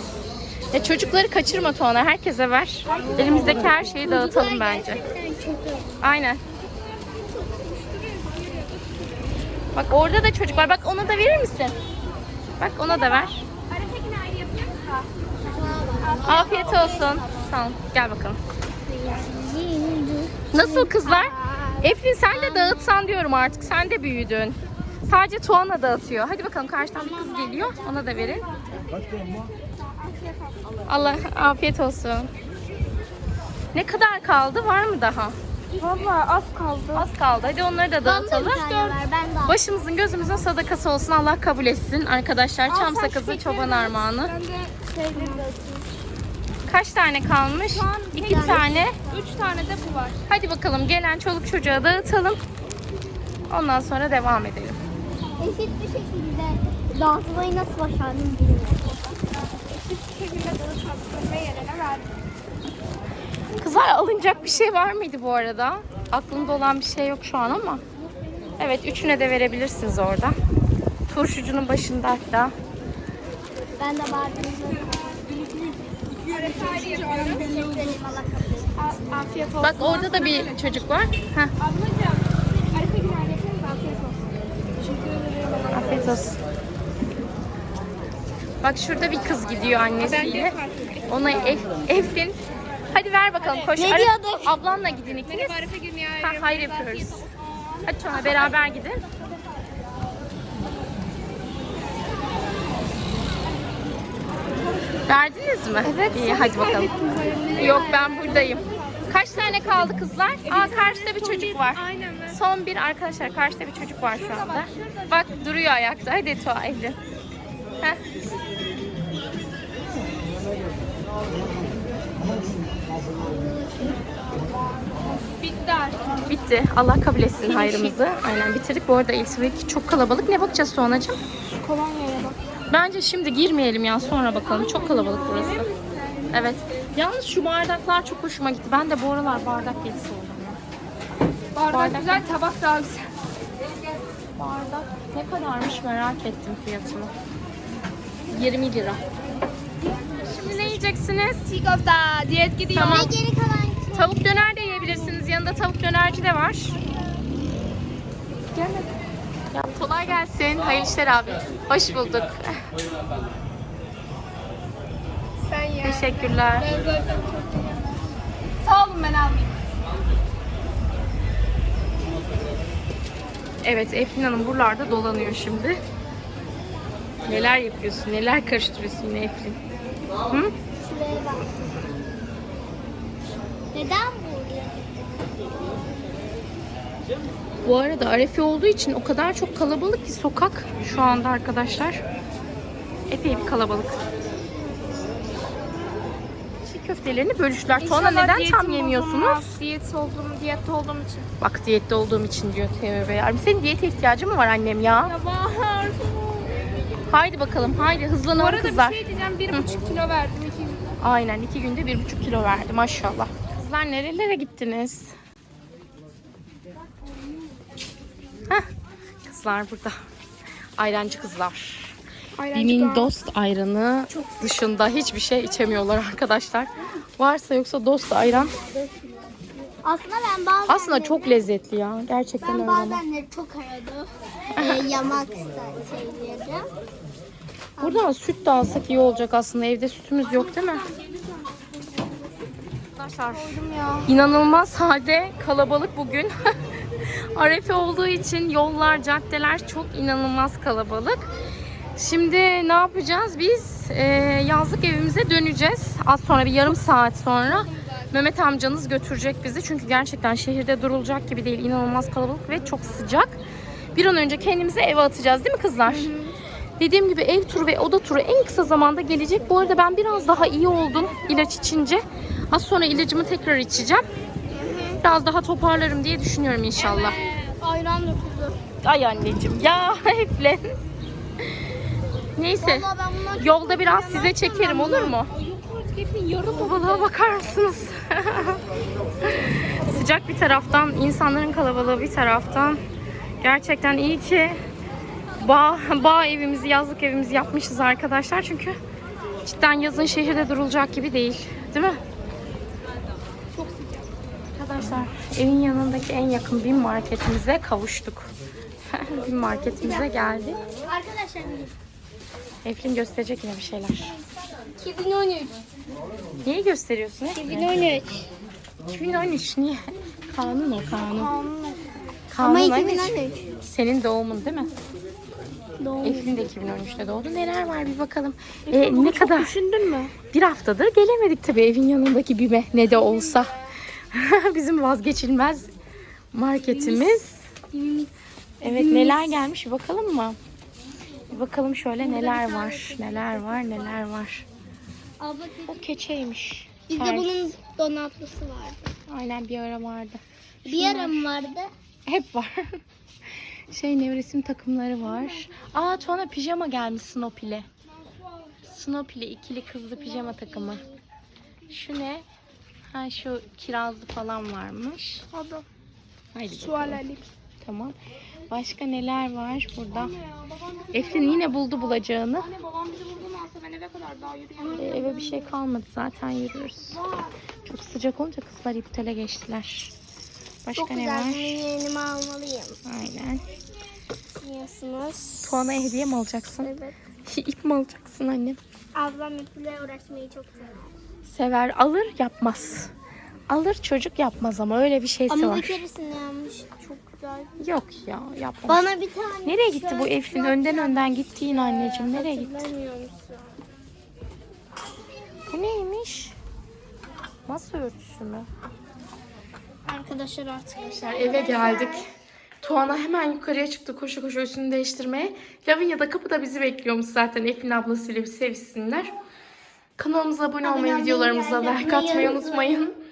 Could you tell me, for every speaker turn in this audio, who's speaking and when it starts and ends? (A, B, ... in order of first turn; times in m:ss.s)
0:00.7-0:05.0 A
0:02.9-0:03.8 B
0:03.0-0:06.0 C
0:06.0-0:06.4 A
0:06.8-0:09.2 B
0:09.7-0:11.8 A
0:12.6-0:13.4 A
0:12.8-0:17.5 B
0:15.4-0:17.2 C
0:16.2-0:18.4 A
0:18.8-0:23.0 C
0:20.5-0:28.4 A
0:27.0-0:28.9 C
0:28.8-0:30.8 B
0:30.9-0:32.3 A
0:33.7-0:35.4 A
0:35.8-0:37.1 B
0:36.9-0:44.3 A
0:38.0-0:39.6 C
0:42.7-0:45.5 B
0:44.9-0:45.8 C
0:46.7-0:49.0 A
0:47.7-0:50.2 B
0:48.2-0:49.2 C
0:50.3-0:52.4 A
0:53.5-0:54.8 A
0:55.4-0:58.9 C
0:59.4-1:02.1 B
1:03.6-1:07.8 A
1:08.6-1:10.4 A
1:11.1-1:12.5 A
1:13.8-1:15.2 C
1:14.8-1:15.4 B
1:16.2-1:19.0 C
1:16.2-1:17.9 B
1:18.8-1:21.0 B
1:19.6-1:21.5 A
1:21.6-1:26.3 B
1:25.7-1:26.4 A
1:28.6-1:30.6 A
1:30.0-1:31.6 B
1:31.1-1:32.4 A
1:32.9-1:35.7 A
1:33.4-1:33.7 B
1:33.8-1:34.5 C
1:35.2-1:38.5 B
1:36.2-1:37.2 A
1:37.8-1:39.0 A
1:45.1-1:47.0 A
1:45.8-1:49.5 B
1:47.6-1:57.0 A
1:50.4-1:52.4 B
1:54.1-1:55.3 B
2:03.4-2:03.9 B
2:05.1-2:06.3 B
2:06.2-2:11.2 A
2:07.4-2:08.0 B
2:11.6-2:12.4 B
2:12.7-2:15.7 A
2:14.5-2:16.6 B
2:16.3-2:20.6 A
2:21.5-2:23.0 B
2:21.7-2:22.2 A
2:24.4-2:27.1 A
2:28.3-2:29.0 A
2:30.0-2:31.5 A
2:30.1-2:30.8 B
2:31.4-2:33.1 B
2:32.7-2:33.2 A
2:32.8-2:34.2 C
2:33.9-2:36.8 A
2:38.5-2:38.9 A
2:39.5-2:42.7 A
2:45.4-2:47.9 B
2:45.8-2:46.7 A
2:48.6-2:49.7 B
2:53.6-2:55.8 A
2:57.2-2:59.6 A
3:00.8-3:01.6 C
3:03.7-3:05.5 C
3:07.6-3:12.0 A
3:13.1-3:14.0 A
3:16.6-3:19.5 A
3:17.8-3:21.3 B
3:21.4-3:25.1 A
3:25.0-3:26.7 B
3:27.1-3:29.7 A
3:28.3-3:31.0 B
3:31.0-3:35.1 A
3:39.2-3:40.0 A
3:40.8-3:42.0 A
3:42.4-3:43.1 B
3:42.5-3:48.5 A
3:49.8-3:51.4 C
3:50.7-3:53.0 A
3:52.4-3:56.7 C
3:54.6-3:54.9 A
3:57.8-3:58.0 C
3:57.8-4:00.9 A
4:00.3-4:02.3 C
4:02.9-4:06.3 A
4:03.3-4:04.1 B
4:07.3-4:11.2 A
4:12.0-4:23.4 A
4:17.4-4:18.1 B
4:23.9-4:26.1 A
4:25.8-4:26.3 C
4:26.8-4:34.0 A
4:34.5-4:35.0 C
4:35.0-4:37.2 A
4:36.8-4:38.6 C
4:38.8-4:40.7 A
4:42.4-4:45.3 A
4:42.6-4:45.2 C
4:45.3-4:47.0 B
4:46.4-4:48.6 A
4:49.2-4:52.8 A
4:53.4-4:54.6 A
4:55.4-4:58.8 A
4:59.4-5:02.0 A
5:03.5-5:04.1 B
5:04.5-5:08.3 A
5:08.9-5:10.6 A
5:10.8-5:11.7 C
5:12.6-5:14.1 A
5:14.7-5:15.6 C
5:16.4-5:17.7 A
5:17.3-5:18.2 C
5:18.9-5:21.3 A
5:21.0-5:21.9 B
5:22.3-5:24.7 A
5:22.4-5:23.5 C
5:25.8-5:26.4 C
5:26.0-5:29.5 A
5:28.7-5:30.1 B
5:30.3-5:33.5 A
5:34.1-5:35.7 A
5:36.3-5:37.5 A
5:36.7-5:37.2 C
5:37.7-5:38.1 C
5:38.6-5:39.4 C
5:38.6-5:40.4 A
5:41.3-5:44.4 A
5:42.0-5:44.0 C
5:45.2-5:45.9 C
5:45.7-5:47.5 A
5:46.9-5:48.8 C
5:49.1-5:51.3 A
5:50.6-5:51.7 C
5:52.1-5:52.8 A
5:53.4-5:57.7 A
5:55.0-5:55.5 C
5:58.6-6:00.8 A
6:00.0-6:01.0 C
6:01.7-6:02.2 A
6:02.9-6:05.2 A
6:05.3-6:05.6 B
6:06.3-6:07.0 A
6:06.5-6:07.2 B
6:07.6-6:08.0 A
6:08.5-6:10.1 A
6:09.9-6:15.2 B
6:10.9-6:12.5 A
6:14.6-6:15.4 C
6:14.8-6:17.0 A
6:16.9-6:17.3 B
6:17.6-6:19.9 A
6:20.6-6:21.6 A
6:20.7-6:22.8 C
6:22.8-6:23.4 A
6:24.4-6:25.6 C
6:25.4-6:26.7 A
6:26.6-6:26.9 C
6:27.2-6:28.6 A
6:28.9-6:30.9 C
6:31.2-6:32.9 A
6:33.5-6:35.8 A
6:35.3-6:37.5 C
6:37.6-6:38.8 A
6:38.7-6:43.5 C
6:39.4-6:42.7 A
6:45.5-6:46.3 A
6:47.5-6:48.5 A
6:49.8-6:52.1 C
6:50.9-6:52.0 A
6:52.6-6:59.1 A
7:00.0-7:02.9 A
7:00.6-7:02.9 C